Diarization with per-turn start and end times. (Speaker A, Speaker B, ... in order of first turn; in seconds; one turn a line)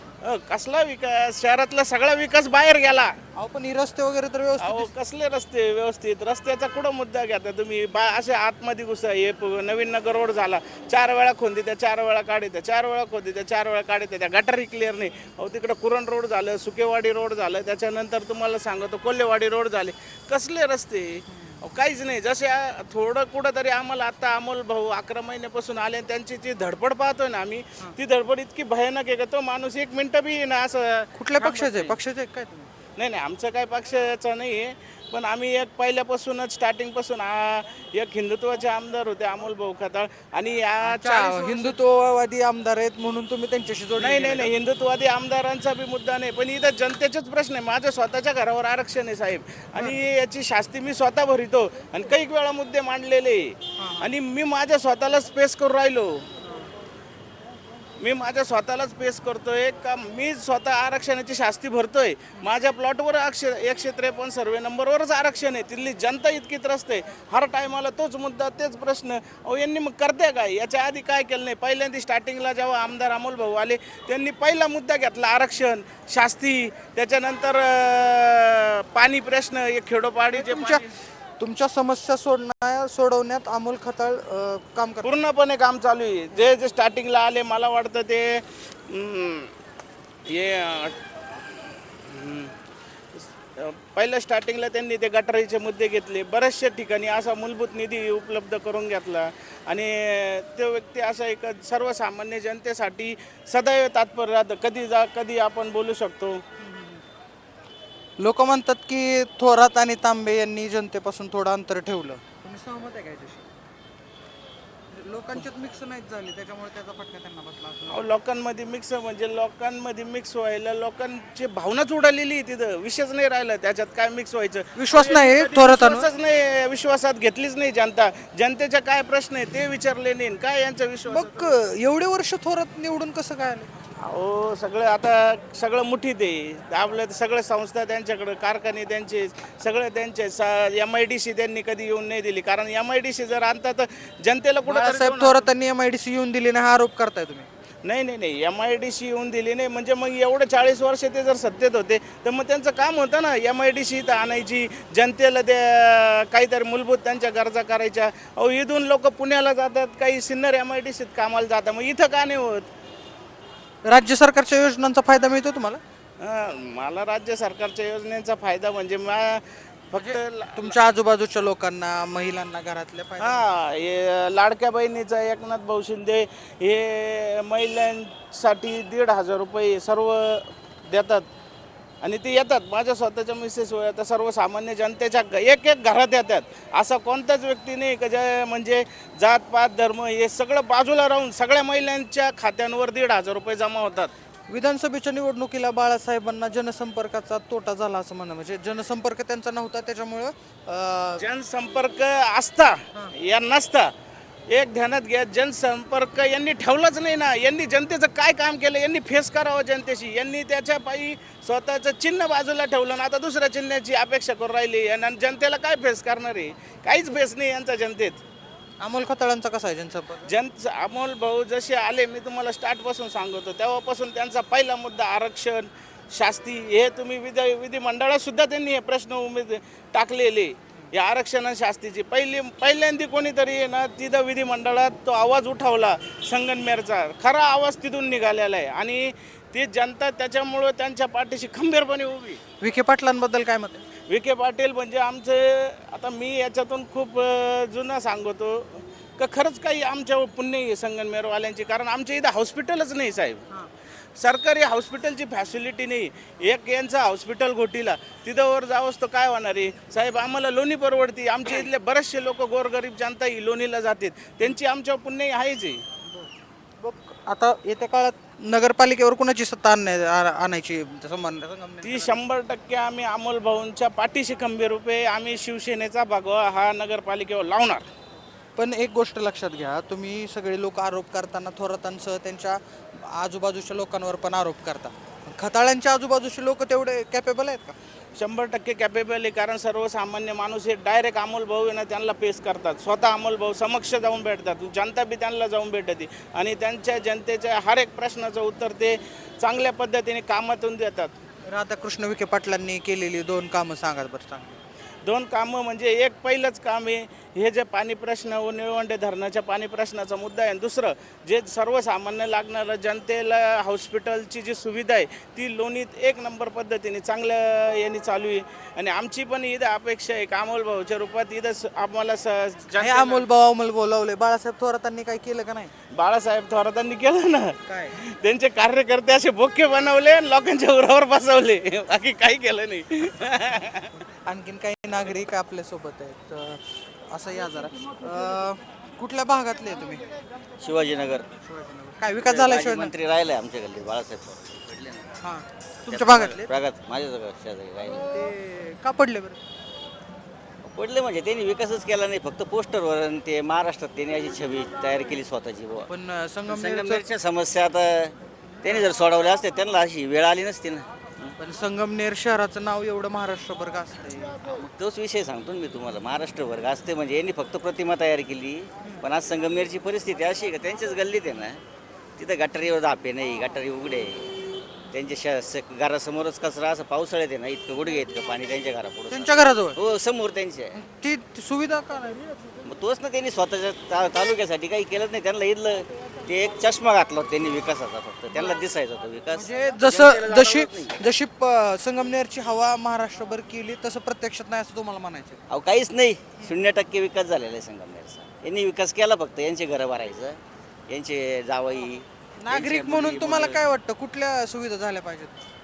Speaker A: 0.2-3.1
Speaker B: 3.3-4.9
Speaker A: 4.6-32.0
Speaker B: 21.3-21.6
Speaker B: 31.1-32.7
Speaker A: 33.0-41.8
Speaker B: 40.8-44.5
Speaker A: 44.0-56.3
Speaker B: 53.8-54.1
Speaker B: 56.4-56.7
Speaker A: 58.0-80.9
Speaker B: 80.3-80.8
Speaker B: 81.4-85.1
Speaker A: 85.0-89.5
Speaker A: 90.3-91.0
Speaker A: 92.0-92.5
Speaker A: 93.1-106.4
Speaker B: 106.6-107.0
Speaker B: 108.2-113.5
Speaker B: 114.9-118.0
Speaker A: 117.9-131.5
Speaker B: 124.8-126.1
Speaker B: 131.1-133.7
Speaker A: 134.0-145.5
Speaker B: 144.7-147.5
Speaker A: 147.8-162.7
Speaker B: 163.8-165.8
Speaker A: 166.2-170.8
Speaker B: 169.9-173.4
Speaker A: 173.2-181.2
Speaker A: 182.0-194.1
Speaker B: 194.5-201.2
Speaker A: 201.2-203.9
Speaker A: 204.5-218.2
Speaker B: 218.8-220.3
Speaker A: 220.2-242.4
Speaker B: 242.6-243.8
Speaker A: 244.1-253.4
Speaker A: 254.2-265.8
Speaker B: 266.1-272.2
Speaker A: 271.8-277.9
Speaker B: 278.6-287.7
Speaker A: 288.2-301.1
Speaker B: 301.4-304.6
Speaker A: 305.0-323.3
Speaker B: 322.8-325.7
Speaker A: 325.9-333.9
Speaker B: 327.7-328.0
Speaker B: 334.2-340.0
Speaker C: 340.6-341.3
Speaker B: 341.4-342.9
Speaker C: 342.2-345.1
Speaker B: 345.2-346.5
Speaker C: 345.9-348.0
Speaker B: 347.8-349.4
Speaker C: 350.6-355.9
Speaker B: 355.9-357.0
Speaker C: 356.5-361.4
Speaker B: 361.4-364.4
Speaker C: 364.4-371.6
Speaker C: 372.2-374.3
Speaker C: 374.9-380.8
Speaker B: 379.1-379.8
Speaker B: 380.7-382.2
Speaker C: 382.6-391.0
Speaker B: 388.3-388.6
Speaker B: 389.3-395.4
Speaker C: 395.5-403.6
Speaker B: 402.4-405.4